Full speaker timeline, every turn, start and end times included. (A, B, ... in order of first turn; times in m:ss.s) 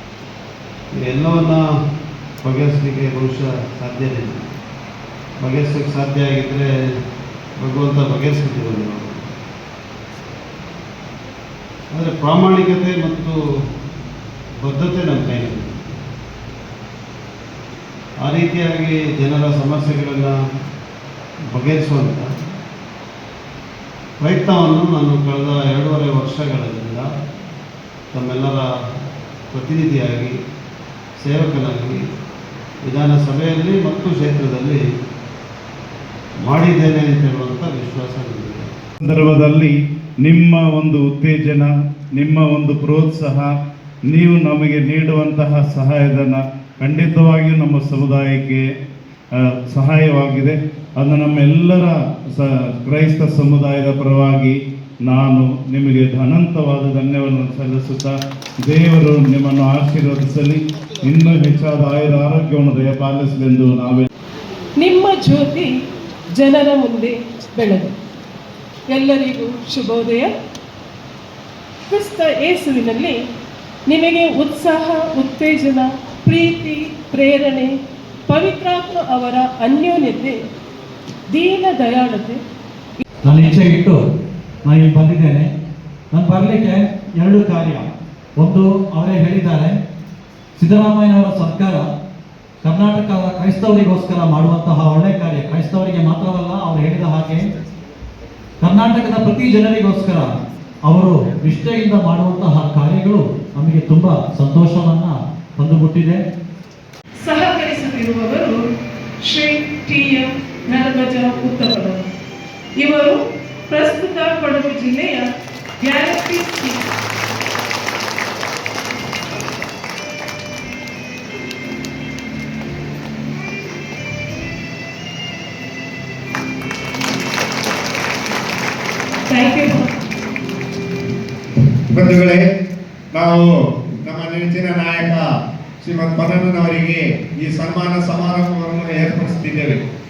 0:01.0-0:01.6 A
0:02.4-0:04.4 A
0:05.4-0:06.7 A
0:07.6-0:09.2 A
0:11.9-0:13.4 A
0:14.6-0:15.8 A
0:18.2-0:20.4 A
0:21.5-0:22.3 A
0:24.2-0:27.1 A
0:28.1-0:28.7 A
0:29.5-0:30.3 A
0:31.2-0:32.0 A
0:32.8-0:34.8 A
0:36.4-0:38.6 A
0:39.0-0:39.7 B
0:40.2-0:43.5 B
0:44.1-0:48.6 B
0:49.7-0:54.5 B
0:55.0-0:58.1 B
0:58.6-1:04.1 B
1:04.8-1:05.7 C
1:06.4-1:07.9 C
1:08.9-1:10.3 C
1:11.9-1:13.2 C
1:13.9-1:17.7 C
1:18.3-1:20.4 C
1:21.3-1:22.4 C
1:23.2-1:24.0 D
1:24.6-1:25.5 D
1:26.1-1:27.9 D
1:28.4-1:29.8 D
1:30.6-1:31.9 D
1:32.6-1:37.5 D
1:38.6-1:40.3 D
1:40.8-1:46.2 D
1:47.2-1:48.6 C
1:49.2-1:52.1 C
1:52.8-1:55.2 C
1:55.8-1:56.8 C
2:09.3-2:09.9 C
2:11.9-2:12.4 E
2:13.1-2:13.5 E
2:14.0-2:15.2 E
2:15.8-2:19.8 E